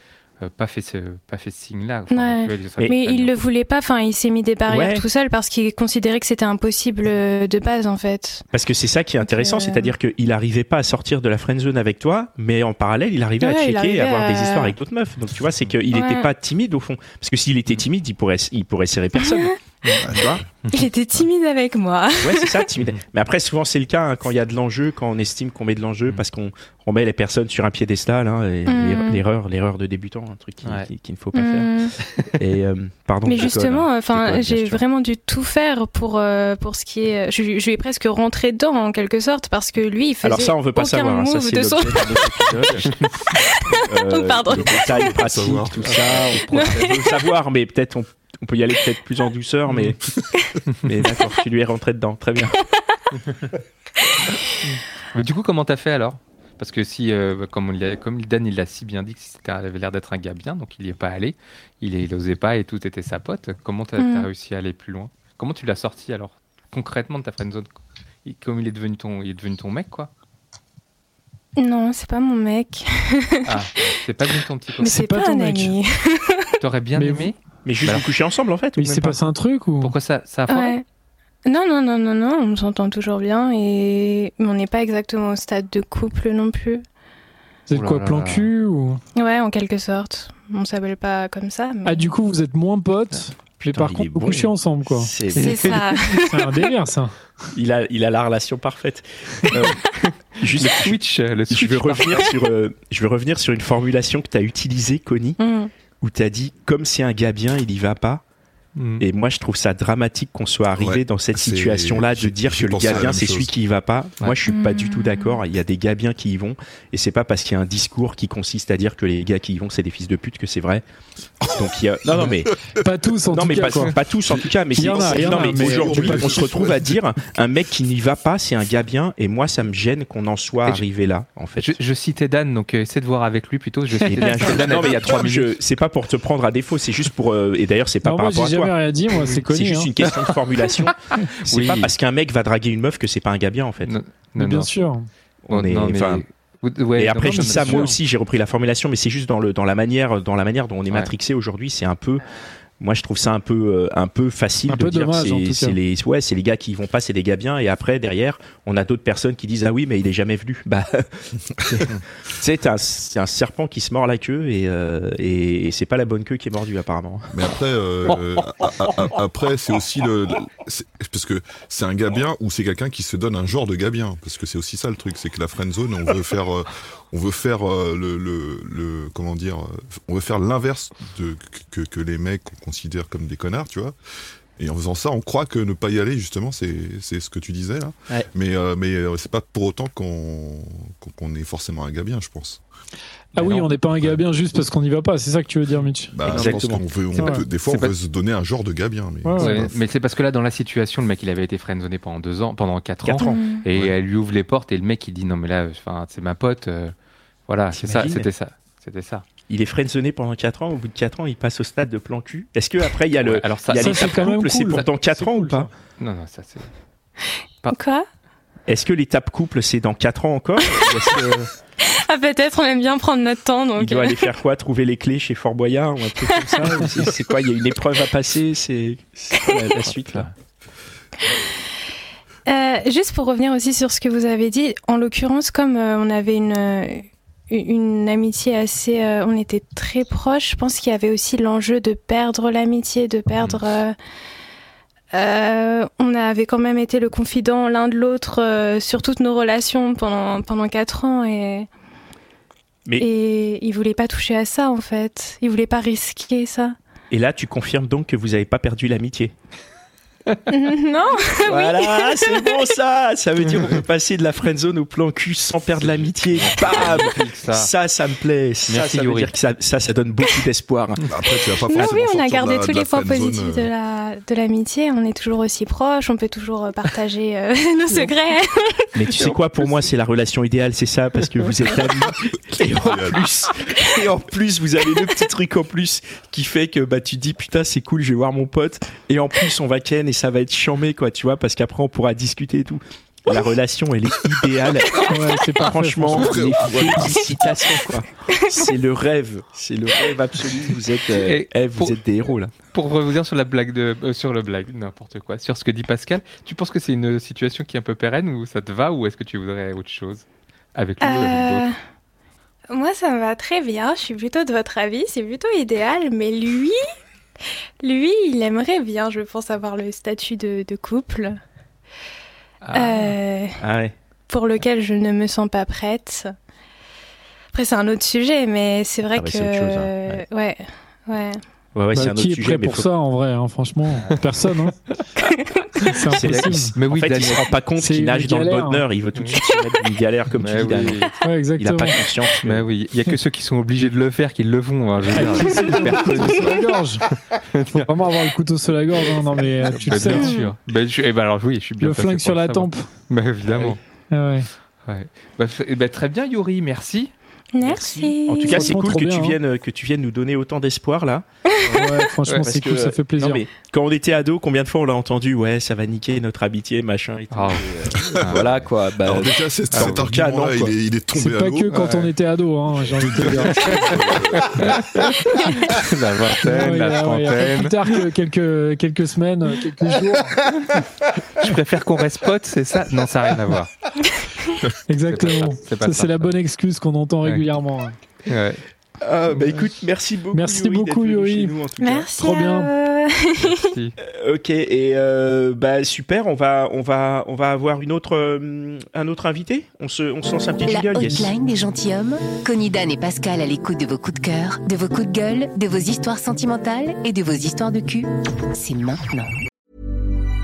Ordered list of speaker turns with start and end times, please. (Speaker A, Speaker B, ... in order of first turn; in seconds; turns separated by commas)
Speaker A: 0.4-3.4, Speaker B: 2.1-8.4, Speaker C: 4.7-5.0, Speaker C: 8.5-20.4, Speaker B: 9.2-9.9, Speaker B: 13.4-14.8, Speaker B: 15.9-16.3, Speaker B: 19.2-19.6, Speaker D: 20.0-20.4, Speaker B: 20.7-22.6, Speaker C: 22.2-31.7, Speaker B: 28.7-29.2, Speaker B: 31.4-31.9, Speaker C: 32.3-34.8, Speaker B: 33.2-42.7, Speaker C: 40.2-43.0, Speaker B: 43.3-45.1, Speaker C: 43.9-50.0, Speaker D: 44.5-46.4, Speaker A: 45.9-47.0, Speaker B: 46.5-47.2, Speaker C: 50.8-52.6, Speaker A: 54.6-67.7, Speaker B: 64.0-64.3, Speaker A: 68.2-70.1, Speaker B: 71.6-73.6, Speaker A: 73.5-75.0, Speaker B: 74.8-76.5, Speaker E: 74.8-75.8, Speaker A: 76.6-78.1, Speaker E: 77.0-77.3, Speaker C: 77.7-79.2, Speaker E: 78.8-80.0, Speaker A: 79.8-80.8, Speaker B: 80.5-80.8, Speaker B: 81.5-86.8, Speaker E: 87.7-89.0, Speaker A: 87.7-88.5, Speaker B: 89.2-92.1, Speaker E: 91.8-97.2, Speaker C: 93.6-95.8, Speaker B: 95.4-96.7, Speaker C: 97.5-99.8, Speaker A: 99.5-102.3, Speaker C: 100.4-101.0, Speaker C: 101.5-105.4, Speaker B: 105.4-105.7, Speaker C: 106.0-108.2, Speaker A: 108.8-109.0, Speaker C: 109.0-120.8, Speaker D: 110.8-113.5, Speaker B: 114.5-115.4, Speaker D: 121.4-122.3, Speaker C: 121.5-122.5, Speaker E: 122.8-124.0, Speaker C: 123.3-131.8, Speaker E: 124.7-126.4, Speaker D: 124.9-127.0, Speaker A: 131.6-135.6, Speaker C: 134.1-138.8, Speaker E: 138.0-139.9, Speaker C: 139.4-144.0, Speaker A: 141.4-141.9, Speaker A: 143.8-144.7, Speaker E: 144.4-145.1, Speaker C: 145.5-146.2, Speaker A: 145.5-147.9, Speaker C: 147.0-152.2, Speaker E: 147.2-148.0, Speaker C: 152.8-167.3, Speaker E: 154.7-155.8, Speaker D: 167.3-183.9, Speaker D: 184.6-192.6, Speaker E: 193.3-196.2, Speaker D: 196.2-199.8, Speaker C: 196.2-197.8, Speaker E: 197.2-197.4, Speaker E: 199.2-199.7, Speaker A: 199.4-206.9, Speaker C: 203.0-203.4, Speaker B: 203.2-203.6, Speaker A: 207.5-209.2, Speaker C: 207.7-208.3, Speaker C: 209.5-215.7, Speaker A: 213.2-214.8, Speaker E: 213.7-215.7, Speaker A: 216.0-216.7, Speaker B: 217.7-218.1, Speaker C: 218.7-221.5, Speaker B: 221.9-224.3, Speaker C: 223.8-230.3, Speaker B: 226.3-227.1, Speaker A: 229.8-230.3, Speaker B: 232.5-244.0, Speaker A: 243.3-243.6, Speaker B: 245.1-251.7, Speaker B: 253.0-256.8, Speaker C: 257.1-259.3, Speaker B: 260.5-262.6, Speaker C: 261.5-271.0, Speaker D: 263.5-263.8, Speaker A: 265.8-267.7, Speaker A: 268.7-269.3, Speaker D: 271.1-273.7, Speaker B: 271.7-278.9, Speaker C: 278.9-302.5, Speaker A: 279.2-279.8, Speaker D: 282.6-283.5, Speaker E: 295.1-296.5, Speaker D: 296.2-297.4, Speaker A: 301.1-302.0, Speaker A: 302.6-311.7, Speaker B: 311.0-311.8, Speaker B: 312.7-316.8, Speaker B: 317.8-321.4, Speaker A: 322.6-323.2, Speaker B: 322.7-323.6, Speaker C: 323.6-323.9, Speaker B: 324.3-326.3, Speaker B: 327.5-331.4, Speaker C: 329.1-330.2, Speaker C: 331.8-332.9, Speaker E: 331.9-334.8, Speaker A: 333.9-334.2, Speaker B: 335.2-335.9, Speaker E: 335.8-336.8, Speaker C: 336.1-342.6, Speaker A: 336.2-337.5, Speaker E: 337.8-338.8, Speaker A: 339.1-339.4, Speaker A: 340.4-341.2, Speaker E: 341.2-342.0, Speaker A: 342.4-347.9, Speaker E: 345.1-347.1, Speaker E: 347.7-350.4, Speaker A: 349.1-353.8, Speaker B: 350.0-350.5, Speaker E: 351.8-352.9, Speaker E: 354.1-354.5, Speaker A: 354.9-357.1, Speaker B: 357.5-358.8, Speaker C: 357.6-361.2, Speaker E: 358.5-359.4, Speaker B: 361.6-361.9, Speaker A: 361.7-362.4, Speaker E: 361.8-363.4, Speaker C: 362.4-370.8, Speaker A: 367.3-368.5, Speaker D: 368.1-371.9, Speaker A: 369.7-370.0, Speaker E: 371.2-373.9, Speaker A: 371.7-372.1, Speaker D: 372.9-374.9, Speaker A: 373.4-378.1, Speaker E: 376.4-380.4, Speaker A: 381.4-383.7, Speaker E: 384.9-388.0, Speaker A: 385.1-386.4, Speaker A: 387.2-387.5, Speaker A: 388.3-388.6, Speaker C: 389.0-392.1, Speaker E: 390.3-391.5, Speaker B: 391.8-393.7, Speaker E: 392.2-392.7, Speaker A: 393.4-394.0, Speaker C: 394.0-401.3, Speaker F: 400.7-409.3